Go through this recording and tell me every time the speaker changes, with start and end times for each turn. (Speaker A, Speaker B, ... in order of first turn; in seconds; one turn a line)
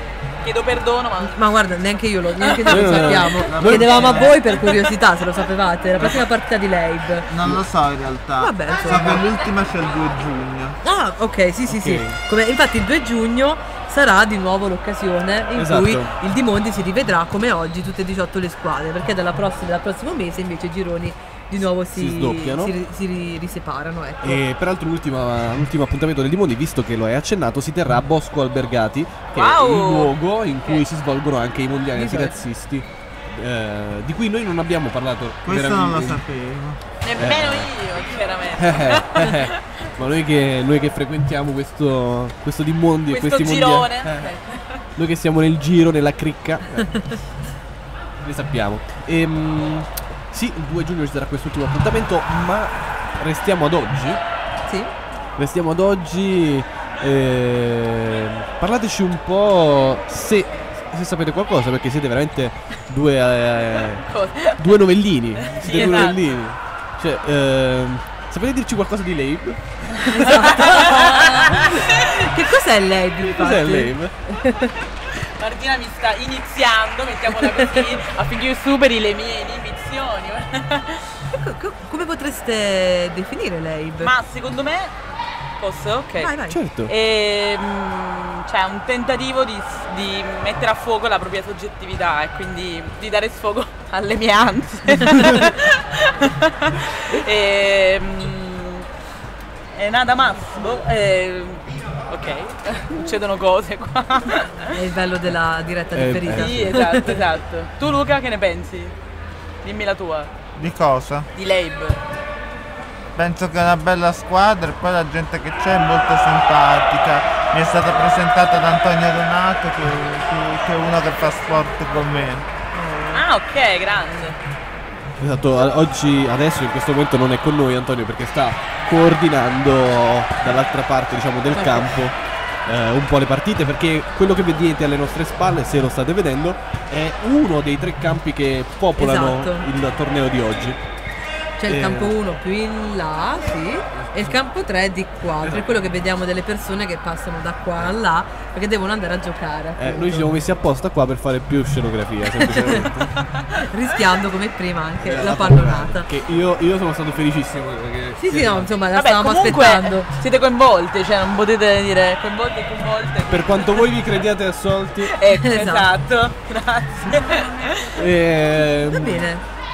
Speaker A: 0.4-1.4
Speaker B: 1.2-7.3
Speaker A: 2.4-4.9
Speaker C: 2.6-4.4
Speaker D: 2.8-4.7
Speaker D: 7.3-10.8
Speaker B: 8.4-9.3
Speaker B: 10.8-24.4
Speaker C: 11.7-12.2
Speaker C: 15.5-16.1
Speaker C: 21.7-22.8
Speaker C: 24.2-36.2
Speaker A: 29.3-30.8
Speaker B: 31.9-32.4
Speaker D: 35.5-36.8
Speaker A: 37.0-39.7
Speaker C: 37.1-37.8
Speaker C: 38.5-44.0
Speaker A: 43.1-44.8
Speaker C: 45.0-47.1
Speaker C: 48.2-54.2
Speaker B: 54.7-54.9
Speaker C: 55.4-69.9
Speaker A: 64.0-64.6
Speaker A: 65.4-66.3
Speaker B: 70.1-74.7
Speaker A: 70.1-72.1
Speaker C: 73.2-74.1
Speaker A: 75.2-81.1
Speaker B: 77.4-77.9
Speaker B: 81.4-84.1
Speaker A: 84.0-84.9
Speaker A: 85.6-98.9
Speaker B: 86.2-86.6
Speaker C: 86.5-86.9
Speaker A: 99.7-104.8
Speaker B: 104.8-107.2
Speaker C: 105.9-106.9
Speaker A: 106.3-109.0
Speaker A: 109.6-110.3
Speaker D: 110.5-111.3
Speaker A: 111.3-112.0
Speaker D: 113.2-122.5
Speaker B: 122.7-123.2
Speaker A: 123.1-124.4
Speaker C: 125.2-132.2
Speaker B: 131.5-131.9
Speaker C: 132.7-140.8
Speaker B: 139.0-139.7
Speaker B: 141.6-150.4
Speaker C: 141.7-142.2
Speaker C: 144.0-144.2
Speaker C: 145.4-146.0
Speaker C: 149.8-153.2
Speaker B: 152.4-152.8
Speaker A: 153.1-153.6
Speaker B: 153.7-156.1
Speaker C: 155.0-158.9
Speaker B: 158.2-160.1
Speaker A: 158.9-163.9
Speaker C: 163.3-165.3
Speaker A: 165.0-167.9
Speaker B: 165.3-165.9
Speaker C: 167.9-169.3
Speaker B: 168.9-169.4